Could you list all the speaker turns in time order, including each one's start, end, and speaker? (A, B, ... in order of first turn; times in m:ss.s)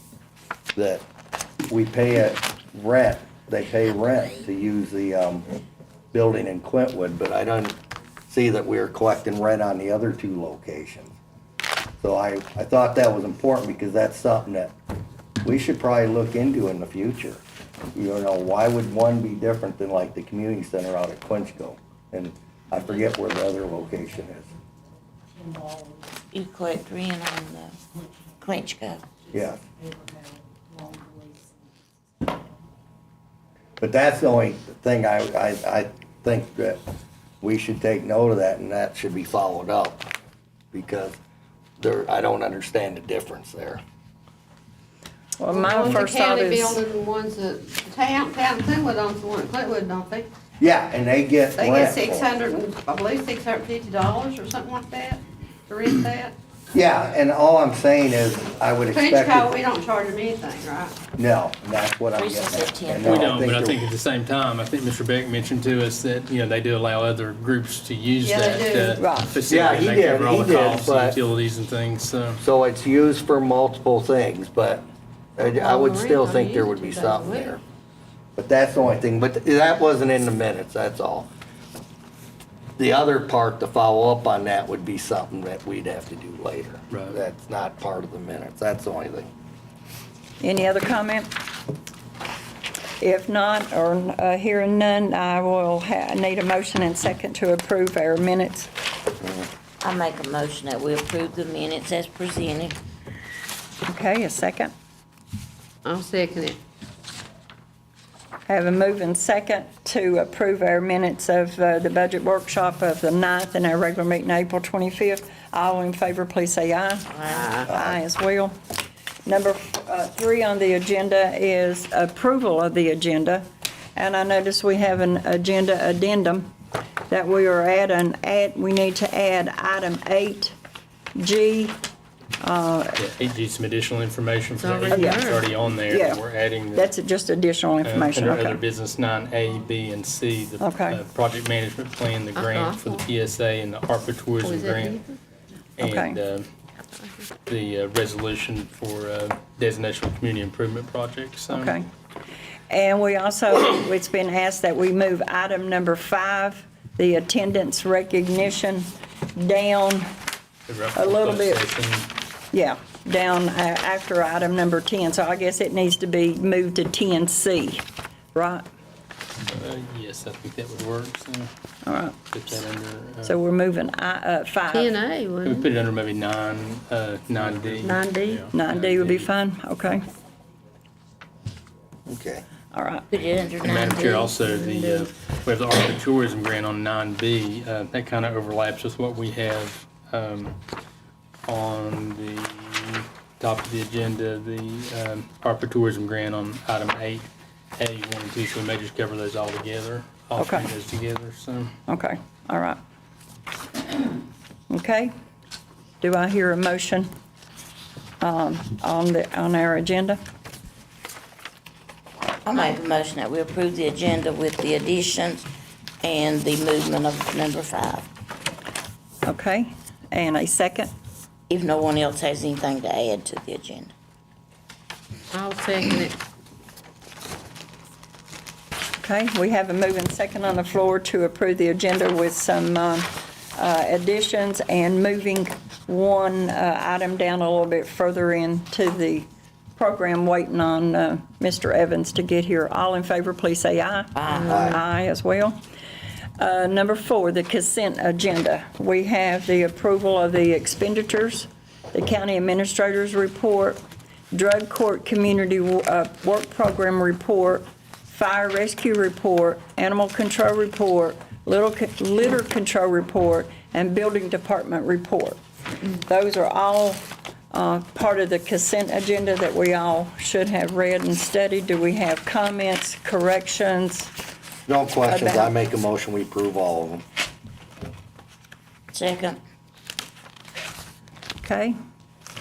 0:00.8-0:01.0 A
0:01.7-0:05.5 A
0:06.1-0:07.8 A
0:08.3-0:11.1 A
0:12.0-0:14.7 A
0:15.4-0:17.4 A
0:17.9-0:24.5 A
0:26.3-0:27.8 B
0:28.4-0:29.1 B
0:29.3-0:29.6 A
0:33.8-0:36.8 A
0:37.4-0:40.0 A
0:40.7-0:41.2 A
0:41.8-0:43.8 A
0:45.4-0:46.8 C
0:45.5-0:50.3 D
0:50.6-0:52.3 A
0:51.6-0:56.3 D
0:56.7-0:59.5 A
0:58.9-1:01.0 D
1:01.2-1:03.9 A
1:02.2-1:03.3 B
1:03.0-1:12.4 E
1:08.2-1:09.0 D
1:09.0-1:09.4 C
1:09.5-1:11.2 A
1:12.4-1:14.8 A
1:15.4-1:17.6 A
1:15.4-1:17.6 D
1:18.4-1:21.3 A
1:22.8-1:29.3 A
1:26.9-1:27.2 E
1:30.4-1:31.3 C
1:33.0-1:38.7 C
1:39.8-1:42.8 B
1:43.8-1:44.7 C
1:45.8-1:46.6 D
1:48.5-1:58.5 C
1:57.1-1:57.4 B
1:57.3-1:57.7 D
1:57.6-1:58.0 A
1:59.2-2:03.4 C
2:04.0-2:06.5 C
2:07.1-2:10.5 C
2:11.2-2:11.8 C
2:12.4-2:13.0 C
2:13.0-2:16.9 E
2:14.6-2:15.4 D
2:14.9-2:15.3 C
2:15.9-2:18.6 C
2:17.8-2:25.0 E
2:20.6-2:21.0 C
2:22.3-2:23.0 D
2:24.4-2:25.2 D
2:25.8-2:26.5 E
2:25.8-2:26.2 C
2:27.0-2:27.2 D
2:27.5-2:31.8 E
2:31.5-2:31.9 C
2:32.7-2:40.1 C
2:40.7-2:42.1 E
2:40.9-2:41.6 C
2:42.5-2:48.6 C
2:49.5-2:51.5 E
2:51.8-2:52.2 C
2:52.3-2:53.4 E
2:53.2-2:55.0 C
2:54.7-2:55.7 D
2:55.4-2:59.3 E
2:57.8-2:58.5 D
2:58.5-3:00.0 C
3:02.0-3:02.4 A
3:02.7-3:03.1 C
3:03.1-3:04.4 B
3:03.6-3:10.6 E
3:04.5-3:05.0 D
3:11.4-3:21.7 E
3:20.4-3:20.7 C
3:21.9-3:22.8 C
3:24.7-3:25.1 C
3:26.0-3:27.1 C
3:28.2-3:30.2 C
3:32.4-3:35.5 B
3:36.0-3:38.1 B
3:39.2-3:40.9 C
3:41.5-3:43.9 B
3:45.3-3:46.2 D
3:49.0-4:05.6 C
4:04.1-4:04.4 B
4:04.3-4:04.8 D
4:04.5-4:04.8 A
4:06.4-4:13.8 C
4:14.3-4:25.4 C
4:25.9-4:34.1 C
4:34.7-4:37.0 A
4:35.1-4:35.5 C
4:38.9-4:39.4 B
4:41.4-4:41.7 C